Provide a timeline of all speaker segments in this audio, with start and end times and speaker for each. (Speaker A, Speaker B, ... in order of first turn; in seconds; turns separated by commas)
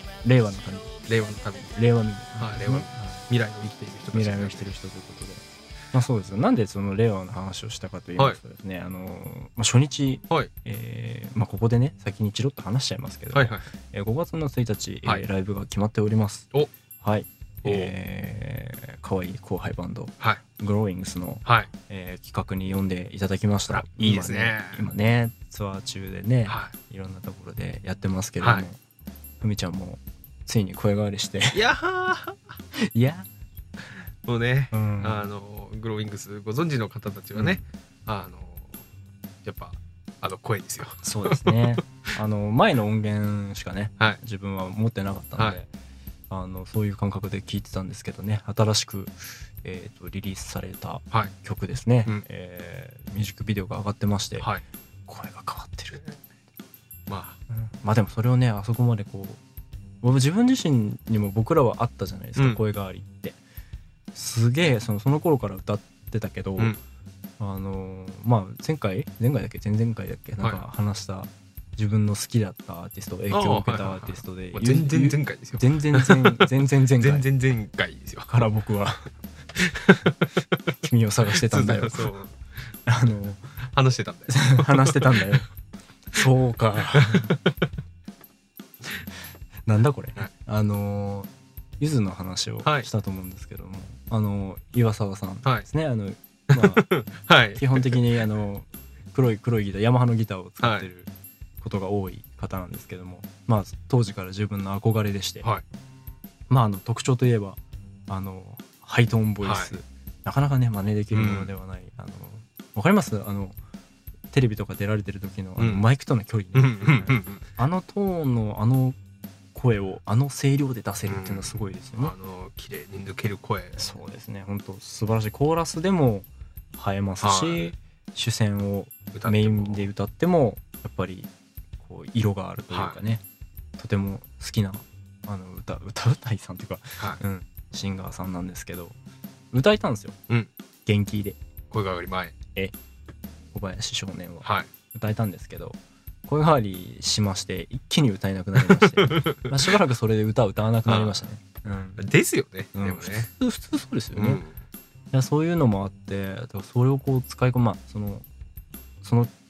Speaker A: 0.2-0.9, Speaker B: 1.1-1.8, Speaker A: 1.7-3.2, Speaker B: 2.3-4.7, Speaker A: 4.1-16.5, Speaker B: 13.3-13.7, Speaker A: 17.0-28.8, Speaker B: 17.6-17.9, Speaker B: 21.4-21.7, Speaker B: 23.7-24.9, Speaker B: 26.5-26.7, Speaker B: 28.4-28.7, Speaker A: 29.4-31.6, Speaker B: 31.5-32.4, Speaker A: 32.7-33.3, Speaker B: 34.2-38.8, Speaker A: 34.7-35.2, Speaker A: 37.3-37.6, Speaker B: 39.4-41.8, Speaker A: 41.0-45.7, Speaker A: 46.3-54.5, Speaker A: 55.1-56.2, Speaker B: 57.1-57.4, Speaker A: 57.5-59.4, Speaker A: 60.0-63.4, Speaker A: 64.1-66.8, Speaker A: 67.4-77.3, Speaker B: 73.3-78.4, Speaker A: 78.3-79.1, Speaker B: 79.6-80.7, Speaker A: 80.8-82.1, Speaker B: 81.3-82.4, Speaker A: 82.9-83.4, Speaker B: 83.7-85.4, Speaker A: 84.3-85.5, Speaker A: 86.1-87.3, Speaker B: 86.9-87.7, Speaker A: 89.7-96.8, Speaker B: 96.5-98.0, Speaker A: 97.5-101.1, Speaker B: 100.6-100.9, Speaker A: 101.6-105.5, Speaker A: 106.5-113.6, Speaker B: 109.4-109.8, Speaker B: 111.1-111.5, Speaker A: 114.3-119.0, Speaker B: 115.6-115.8, Speaker B: 116.5-117.4, Speaker A: 119.5-122.1, Speaker B: 121.1-123.8, Speaker A: 123.8-133.2, Speaker B: 127.2-127.7, Speaker B: 129.1-129.9, Speaker B: 132.7-133.0, Speaker A: 133.8-139.0, Speaker A: 139.5-140.2, Speaker A: 140.8-141.4, Speaker B: 141.7-142.3, Speaker A: 143.5-152.0, Speaker B: 144.4-144.7, Speaker B: 148.6-149.7, Speaker B: 150.8-151.2, Speaker B: 152.0-153.3, Speaker A: 152.7-154.4, Speaker B: 154.1-154.6, Speaker A: 155.1-158.2, Speaker A: 159.0-159.3